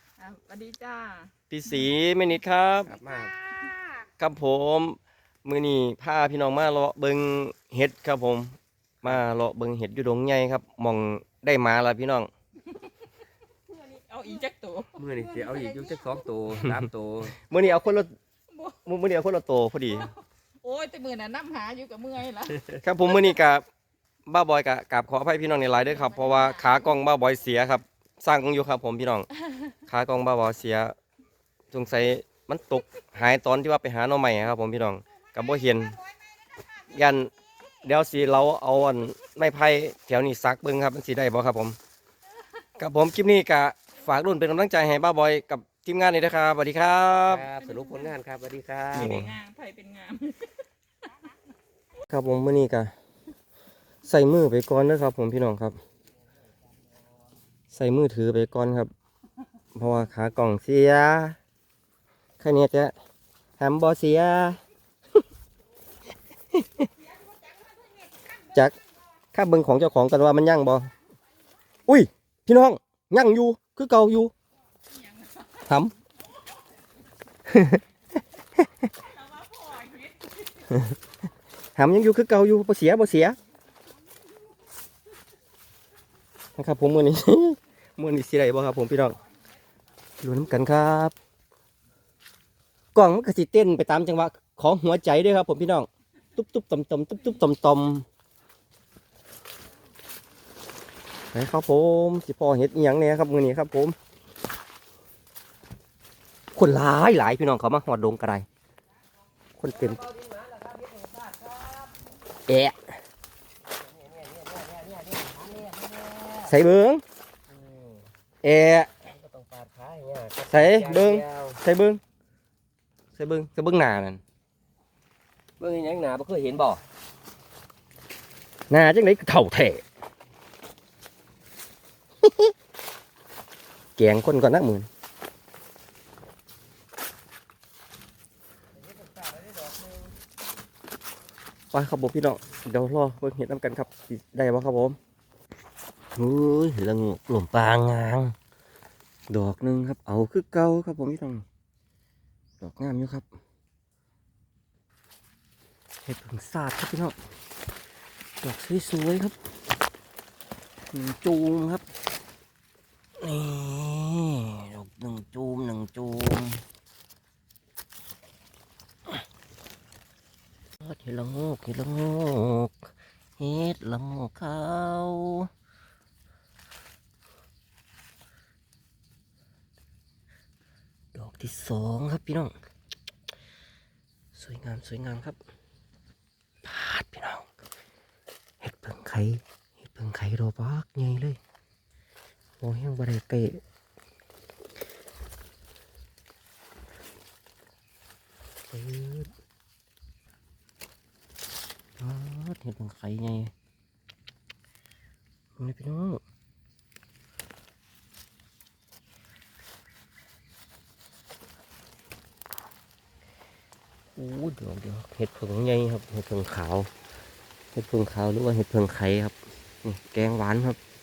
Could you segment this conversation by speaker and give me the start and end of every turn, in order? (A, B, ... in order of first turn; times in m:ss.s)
0:00.2-0:01.3 A
0:01.5-0:03.0 B
0:02.9-0:03.3 C
0:02.9-0:04.0 A
0:04.2-0:12.3 B
0:13.7-0:16.2 A
0:15.0-0:17.4 C
0:17.4-0:18.1 B
0:18.5-0:18.8 A
0:18.8-0:20.1 B
0:20.6-0:22.7 A
0:22.8-0:23.7 B
0:24.3-0:29.3 B
0:26.2-0:26.6 A
0:29.8-0:31.0 B
0:31.7-0:36.0 B
0:36.9-0:37.3 B
0:37.8-0:41.8 B
0:42.8-0:47.5 B
0:47.3-0:49.2 C
0:47.6-0:48.1 A
0:48.9-0:49.4 B
0:48.9-0:50.5 A
0:52.1-0:52.9 B
0:54.0-0:55.8 B
0:57.7-0:58.9 B
0:59.8-1:01.4 B
1:02.4-1:02.9 B
1:03.6-1:04.6 B
1:06.5-1:06.9 B
1:08.5-1:08.8 B
1:09.3-1:10.9 B
1:11.9-1:14.3 B
1:15.0-1:15.6 A
1:15.6-1:15.9 B
1:17.4-1:17.8 B
1:18.6-1:18.9 B
1:19.1-1:20.4 A
1:20.7-1:21.0 B
1:21.8-1:23.4 B
1:26.6-1:29.2 B
1:30.2-1:31.2 B
1:33.0-1:38.1 B
1:41.3-1:44.0 B
1:46.6-1:48.5 B
1:49.6-1:50.0 B
1:49.7-1:52.0 C
1:52.5-1:52.8 B
1:53.7-1:56.6 C
1:56.5-1:57.0 B
1:57.5-1:58.1 C
1:58.4-1:58.9 B
1:59.0-2:01.6 C
2:00.5-2:02.0 B
2:03.2-2:04.2 B
2:05.6-2:06.8 C
2:08.7-2:09.8 B
2:12.2-2:12.5 B
2:14.0-2:14.9 B
2:19.2-2:19.7 C
2:21.7-2:25.0 B
2:26.2-2:28.4 B
2:29.3-2:31.4 B
2:32.6-2:33.3 B
2:36.0-2:37.2 B
2:38.4-2:39.4 B
2:40.9-2:41.8 B
2:43.2-2:46.6 B
2:50.8-2:55.5 B
3:01.1-3:02.5 B
3:04.3-3:05.4 B
3:06.6-3:07.5 B
3:08.6-3:11.4 B
3:12.6-3:13.6 B
3:18.7-3:19.3 B
3:22.0-3:23.5 B
3:25.6-3:26.2 B
3:34.2-3:36.9 B
3:37.7-3:40.8 B